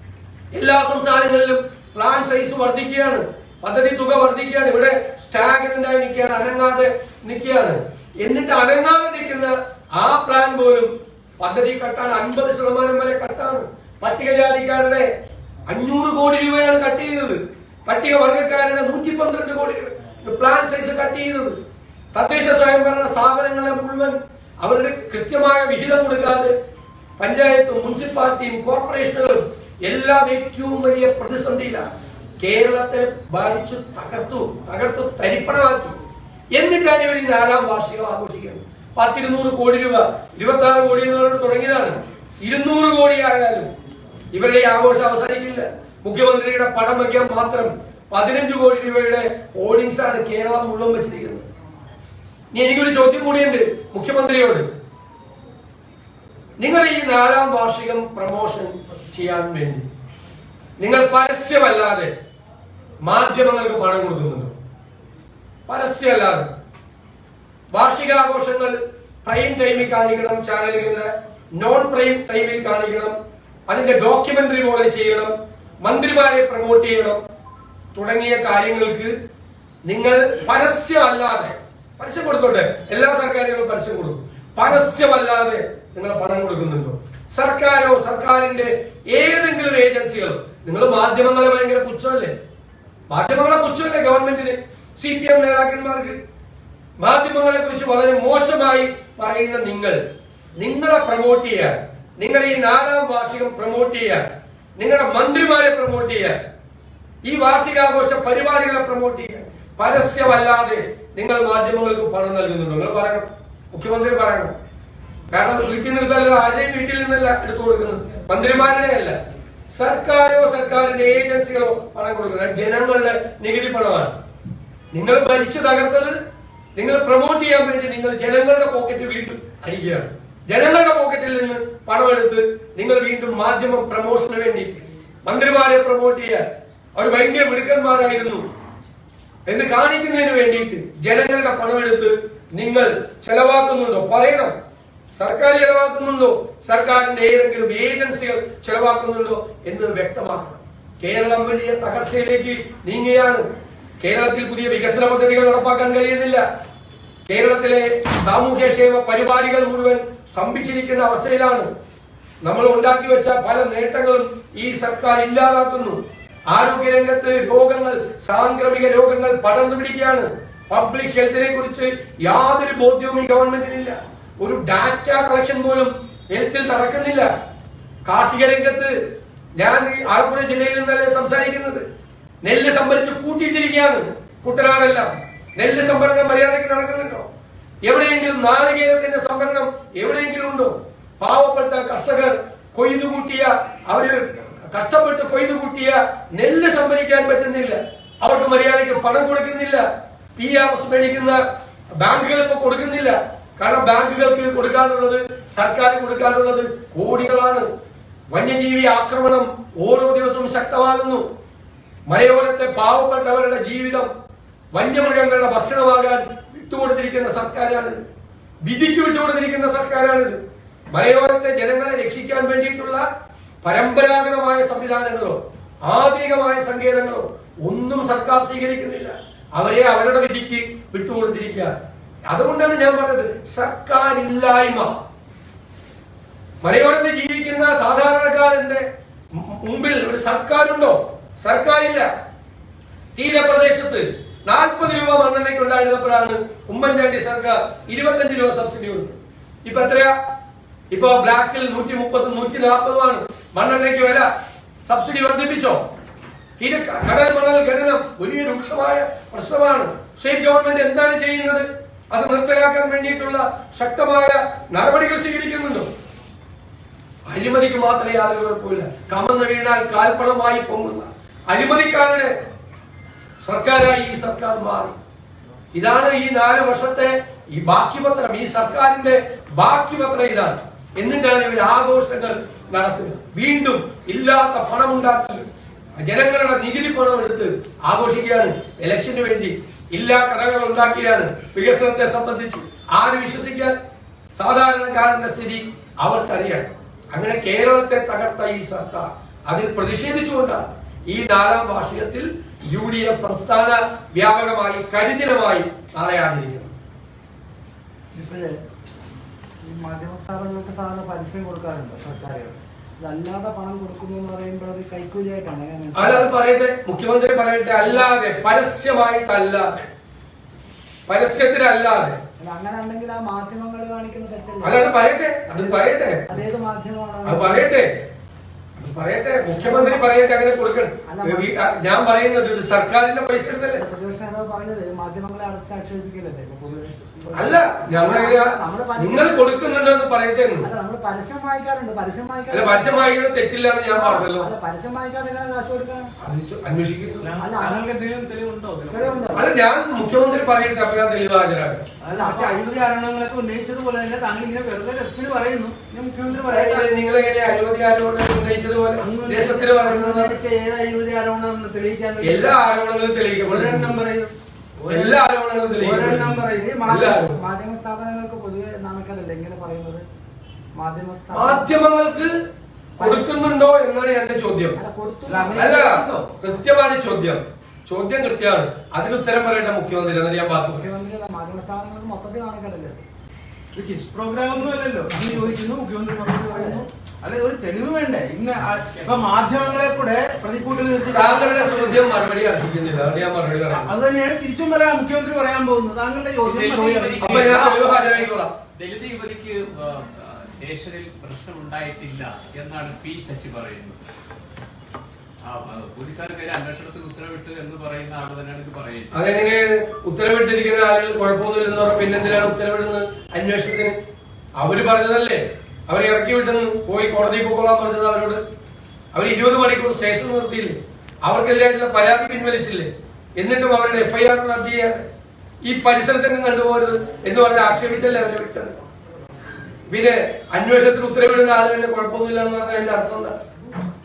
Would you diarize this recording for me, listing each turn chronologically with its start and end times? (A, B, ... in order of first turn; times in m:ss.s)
0:00.5-0:15.1 A
0:15.7-0:21.6 A
0:22.1-0:26.5 A
0:27.2-0:36.0 A
0:36.5-0:43.7 A
0:44.3-0:51.4 A
0:52.5-0:54.7 A
0:56.6-0:59.9 A
1:00.8-1:02.1 A
1:03.0-1:04.5 A
1:05.7-1:06.5 A
1:07.7-1:13.2 A
1:13.7-1:17.2 A
1:17.9-1:19.1 A
1:19.8-1:32.3 A
1:33.1-1:36.2 A
1:37.0-1:40.0 A
1:40.6-1:44.2 A
1:44.8-1:46.4 A
1:47.2-1:54.5 A
1:55.3-1:59.2 A
1:59.7-2:04.1 A
2:04.9-2:06.2 A
2:06.8-2:16.4 A
2:17.0-2:18.5 A
2:19.4-2:24.6 A
2:25.1-2:33.5 A
2:34.0-2:36.4 A
2:37.3-2:41.7 A
2:42.4-2:57.3 A
2:58.0-2:58.9 A
2:59.6-3:01.8 A
3:02.4-3:07.3 A
3:07.8-3:21.4 A
3:22.0-3:27.7 A
3:28.3-3:31.2 A
3:32.1-3:34.1 A
3:34.7-3:38.0 A
3:38.6-3:40.4 A
3:40.9-3:43.1 A
3:43.6-3:51.7 A
3:52.3-3:55.0 A
3:56.6-4:02.1 A
4:03.1-4:10.1 A
4:10.9-4:14.3 A
4:14.8-4:15.8 A
4:16.6-4:25.9 A
4:27.3-4:32.3 A
4:33.4-4:35.0 A
4:35.7-4:45.4 A
4:46.0-4:53.8 A
4:54.3-5:06.7 A
5:08.1-5:08.6 B
5:09.6-5:16.3 B
5:16.0-5:19.8 A
5:17.8-5:18.1 B
5:21.1-5:22.2 A
5:22.4-5:24.9 B
5:24.6-5:26.3 A
5:25.5-5:27.7 B
5:27.2-5:27.9 A
5:28.8-5:33.8 A
5:29.5-5:30.1 B
5:31.0-5:31.5 B
5:33.7-5:39.5 B
5:37.3-5:40.7 A
5:40.6-5:43.0 B
5:42.5-5:44.5 A
5:43.9-5:46.1 B
5:46.2-5:47.3 A
5:47.2-5:49.4 C
5:47.4-5:47.8 B
5:48.9-5:49.5 B
5:49.3-5:51.8 A
5:52.0-5:56.9 C
5:52.1-5:52.6 B
5:56.5-6:00.3 A
5:59.0-6:02.5 C
6:02.2-6:04.0 A
6:03.4-6:05.2 C
6:04.9-6:07.4 A
6:05.8-6:06.8 C
6:06.6-6:10.0 B
6:10.8-6:11.8 B
6:11.3-6:12.3 A
6:13.0-6:13.5 B
6:13.0-6:14.8 A
6:14.8-6:15.6 B
6:15.3-6:16.3 C
6:15.5-6:20.9 A
6:20.6-6:23.0 B
6:23.7-6:32.0 C
6:26.5-6:26.8 B
6:28.9-6:29.9 D
6:31.1-6:33.9 A
6:33.7-6:37.9 C
6:36.4-6:38.1 D
6:37.2-6:38.5 A
6:38.7-6:44.0 D
6:45.4-6:49.2 D
6:49.1-6:54.0 A
6:54.6-6:58.4 A
6:59.1-7:05.0 A
7:05.6-7:08.8 A
7:09.9-7:13.4 A